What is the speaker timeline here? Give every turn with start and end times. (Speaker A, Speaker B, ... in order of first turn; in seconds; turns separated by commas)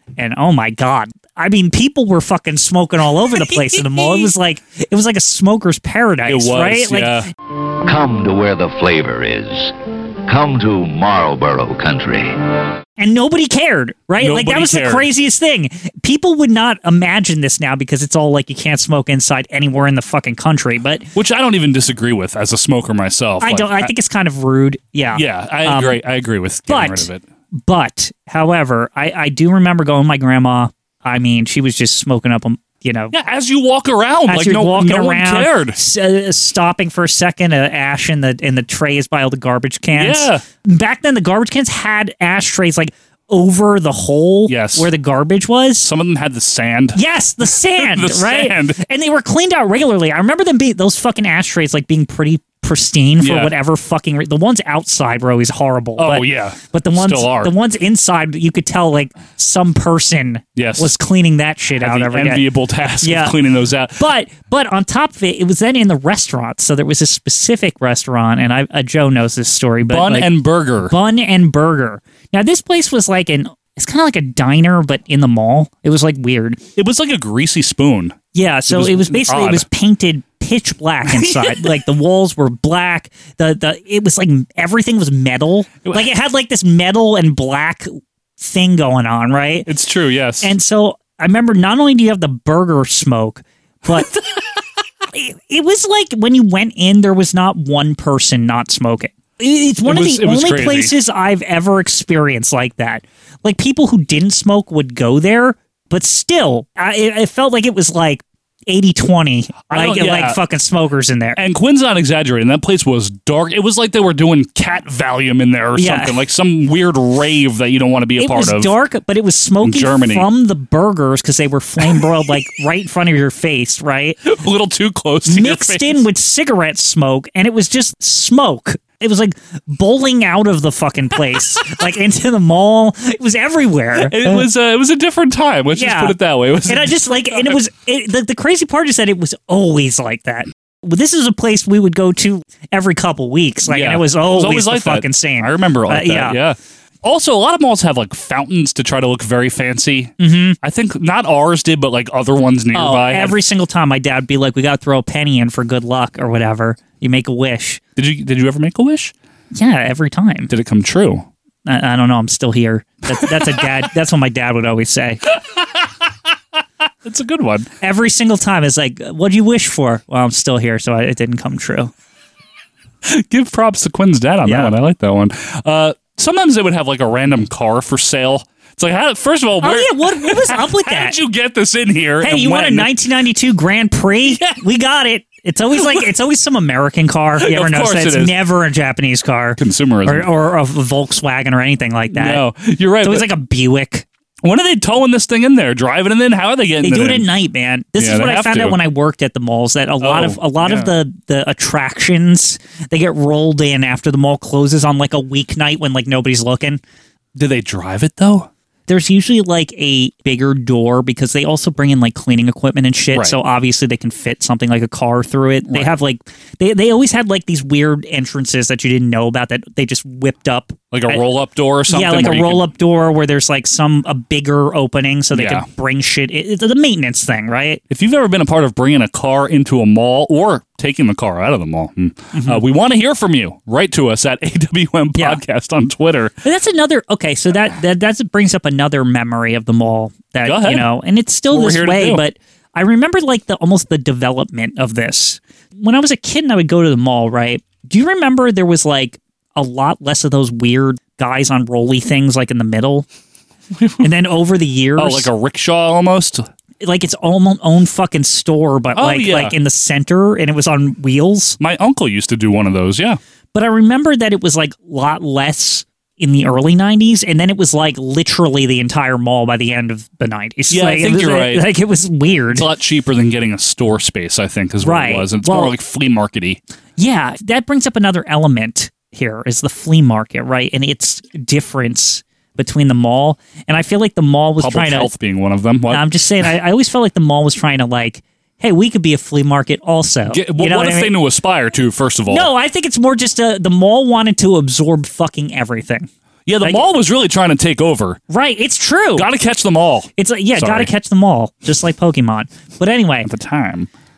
Speaker A: 0.2-7.2, Speaker B: 3.4-4.3, Speaker B: 6.3-7.3, Speaker C: 7.8-9.7, Speaker C: 10.3-12.4, Speaker A: 13.0-21.1, Speaker B: 14.2-15.1, Speaker B: 21.1-23.9, Speaker A: 23.4-26.0, Speaker B: 25.1-27.2, Speaker A: 26.7-33.1, Speaker B: 33.1-35.8, Speaker A: 34.3-45.9, Speaker B: 40.0-40.4, Speaker B: 44.5-44.9, Speaker B: 45.8-48.8, Speaker A: 47.0-62.4, Speaker B: 53.2-53.5, Speaker B: 56.0-57.5, Speaker B: 60.6-60.9, Speaker B: 61.8-64.0, Speaker A: 63.0-63.4, Speaker A: 64.0-70.3, Speaker B: 69.9-70.9, Speaker A: 70.9-76.6, Speaker B: 76.8-78.2, Speaker A: 78.3-89.7, Speaker B: 78.7-79.7, Speaker B: 81.1-81.8, Speaker B: 89.7-90.5, Speaker A: 90.4-94.1, Speaker B: 93.9-94.2, Speaker A: 95.1-111.4, Speaker B: 99.9-100.9, Speaker B: 109.7-110.4, Speaker B: 111.4-118.8, Speaker A: 115.8-116.2, Speaker A: 118.2-124.2, Speaker B: 119.6-120.3, Speaker B: 124.3-126.0, Speaker A: 125.3-134.4, Speaker B: 134.0-137.6, Speaker A: 135.7-146.4, Speaker B: 143.7-153.4, Speaker A: 150.2-150.6, Speaker A: 152.7-157.8, Speaker B: 158.0-159.1, Speaker A: 159.5-160.5, Speaker B: 160.5-161.3, Speaker A: 161.7-165.2, Speaker B: 167.1-167.7, Speaker A: 167.8-171.9, Speaker B: 173.1-182.9, Speaker A: 174.5-174.7, Speaker A: 179.6-181.2, Speaker A: 182.2-192.4, Speaker B: 184.3-184.6, Speaker B: 185.7-186.1, Speaker B: 187.4-188.4, Speaker B: 189.6-190.3, Speaker B: 192.1-193.3, Speaker A: 193.0-194.1, Speaker B: 194.4-197.3, Speaker A: 196.8-206.8, Speaker B: 198.0-198.8, Speaker B: 200.0-200.9, Speaker B: 207.4-208.5, Speaker A: 208.9-221.2, Speaker B: 215.7-216.0, Speaker B: 220.9-222.7, Speaker A: 221.9-227.8, Speaker B: 225.3-225.7, Speaker B: 227.9-236.3, Speaker A: 232.3-232.6, Speaker A: 236.4-253.1, Speaker B: 240.4-240.9, Speaker B: 241.5-242.2, Speaker B: 253.8-254.1, Speaker A: 254.0-255.3, Speaker B: 255.0-256.5, Speaker A: 256.8-261.6, Speaker B: 259.0-259.5, Speaker B: 261.6-263.2, Speaker A: 263.5-272.7, Speaker B: 270.7-271.6, Speaker B: 272.5-276.6, Speaker A: 274.8-275.8, Speaker A: 277.0-285.1, Speaker B: 284.6-286.1, Speaker A: 285.9-291.1, Speaker B: 290.3-292.5, Speaker A: 292.3-296.1, Speaker B: 296.5-298.2, Speaker A: 298.3-299.3, Speaker B: 299.2-300.9, Speaker A: 300.2-303.3, Speaker B: 303.2-303.9